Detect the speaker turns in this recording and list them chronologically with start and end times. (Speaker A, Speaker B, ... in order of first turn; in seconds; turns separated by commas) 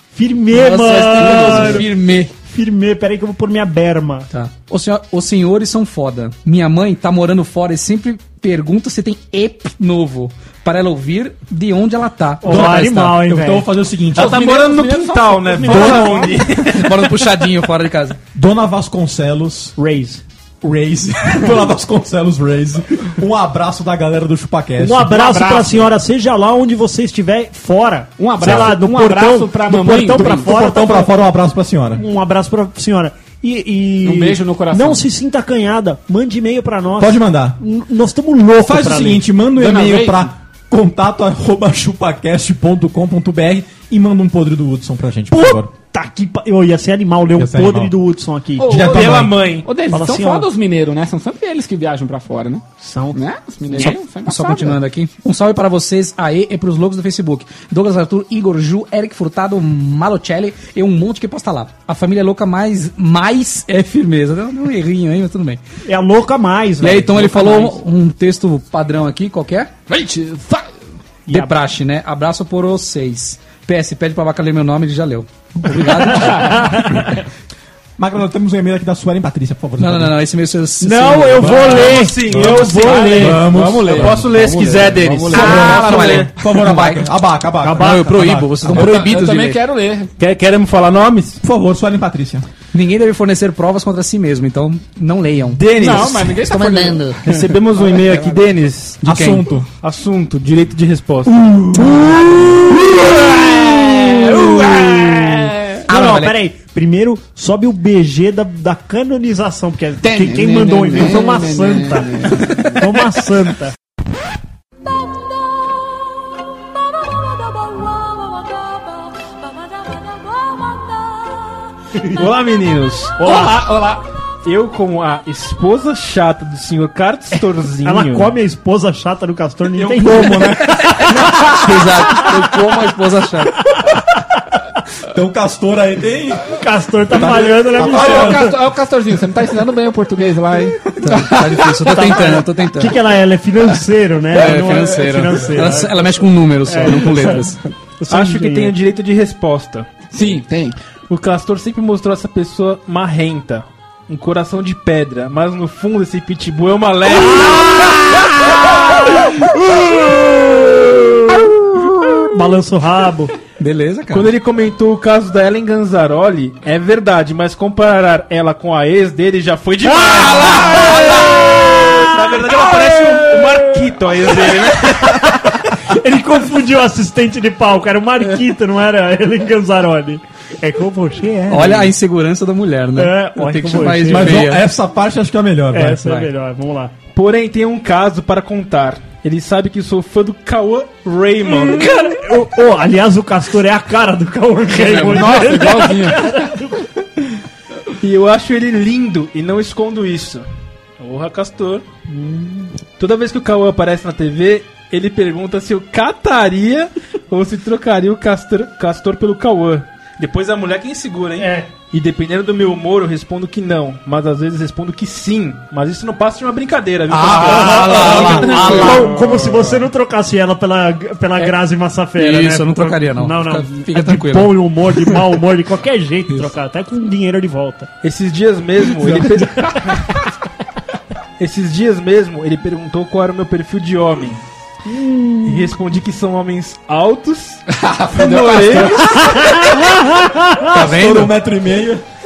Speaker A: 0.1-1.9, Speaker B: 0.5-2.3, Speaker A: 2.4-4.3, Speaker B: 4.3-13.2, Speaker A: 12.4-13.7, Speaker C: 12.4-14.4, Speaker D: 14.1-16.5, Speaker E: 14.1-17.3, Speaker C: 15.6-16.5, Speaker B: 16.6-18.2, Speaker C: 18.3-19.7, Speaker A: 19.8-20.2, Speaker C: 20.6-25.2, Speaker A: 24.8-31.1, Speaker D: 25.1-25.9, Speaker D: 28.2-30.5, Speaker C: 28.4-28.8, Speaker C: 30.1-32.0, Speaker A: 31.9-39.2, Speaker D: 34.0-35.0, Speaker C: 37.0-37.6, Speaker C: 38.6-45.7, Speaker D: 39.5-40.3, Speaker A: 45.3-48.7, Speaker C: 47.4-48.0, Speaker C: 48.6-49.4, Speaker D: 48.6-54.8, Speaker E: 48.8-49.7, Speaker A: 49.9-50.5, Speaker A: 52.8-54.0, Speaker B: 53.9-65.6, Speaker A: 65.8-67.8, Speaker B: 66.8-69.7, Speaker D: 69.9-70.7, Speaker A: 71.3-71.5, Speaker B: 71.3-76.9, Speaker A: 76.3-77.1, Speaker C: 78.0-80.2, Speaker B: 79.8-87.1, Speaker A: 80.8-83.4, Speaker E: 81.4-86.3, Speaker C: 81.5-84.2, Speaker D: 83.6-84.2, Speaker D: 85.0-86.3, Speaker C: 85.3-88.8, Speaker A: 87.6-88.2, Speaker B: 87.7-89.6, Speaker D: 88.7-90.1, Speaker E: 88.7-89.0, Speaker E: 90.2-91.4, Speaker C: 91.4-92.5, Speaker B: 92.7-95.7, Speaker E: 95.5-96.4, Speaker D: 95.7-97.2, Speaker B: 96.4-97.2, Speaker E: 97.2-101.3, Speaker C: 99.0-99.7, Speaker C: 101.2-102.4, Speaker A: 103.7-113.7, Speaker D: 104.1-105.8, Speaker B: 105.9-106.4, Speaker D: 110.0-112.8, Speaker E: 122.1-123.5, Speaker A: 123.2-123.7, Speaker D: 123.2-124.0, Speaker E: 124.4-128.3, Speaker A: 127.4-131.2, Speaker C: 129.7-131.6, Speaker B: 131.4-133.6, Speaker C: 135.0-136.4, Speaker A: 136.5-138.5, Speaker C: 137.1-138.5, Speaker D: 137.8-142.3, Speaker B: 141.0-143.0, Speaker A: 141.8-148.7, Speaker B: 144.3-147.6, Speaker E: 148.1-149.9, Speaker D: 150.1-150.8, Speaker E: 151.1-158.1, Speaker A: 157.5-158.6, Speaker A: 159.3-163.3, Speaker B: 163.6-164.3, Speaker E: 164.1-171.3, Speaker A: 169.9-173.9, Speaker E: 171.9-175.2, Speaker A: 174.4-181.9, Speaker B: 181.5-184.7, Speaker A: 182.9-184.5, Speaker C: 184.0-186.0, Speaker A: 185.7-186.9, Speaker B: 186.0-186.3, Speaker E: 187.1-191.9, Speaker A: 191.5-196.8, Speaker D: 194.7-196.6, Speaker E: 198.0-200.4, Speaker E: 201.0-201.8, Speaker A: 202.1-202.7, Speaker E: 203.0-219.4, Speaker A: 211.4-211.7, Speaker C: 217.1-219.0, Speaker B: 217.1-219.1, Speaker A: 217.4-227.9, Speaker B: 222.1-224.6, Speaker E: 228.0-230.1, Speaker E: 231.4-234.4, Speaker A: 234.8-235.7, Speaker E: 235.4-239.2, Speaker D: 237.7-239.4, Speaker A: 239.2-240.7, Speaker B: 240.7-241.3, Speaker C: 240.7-242.0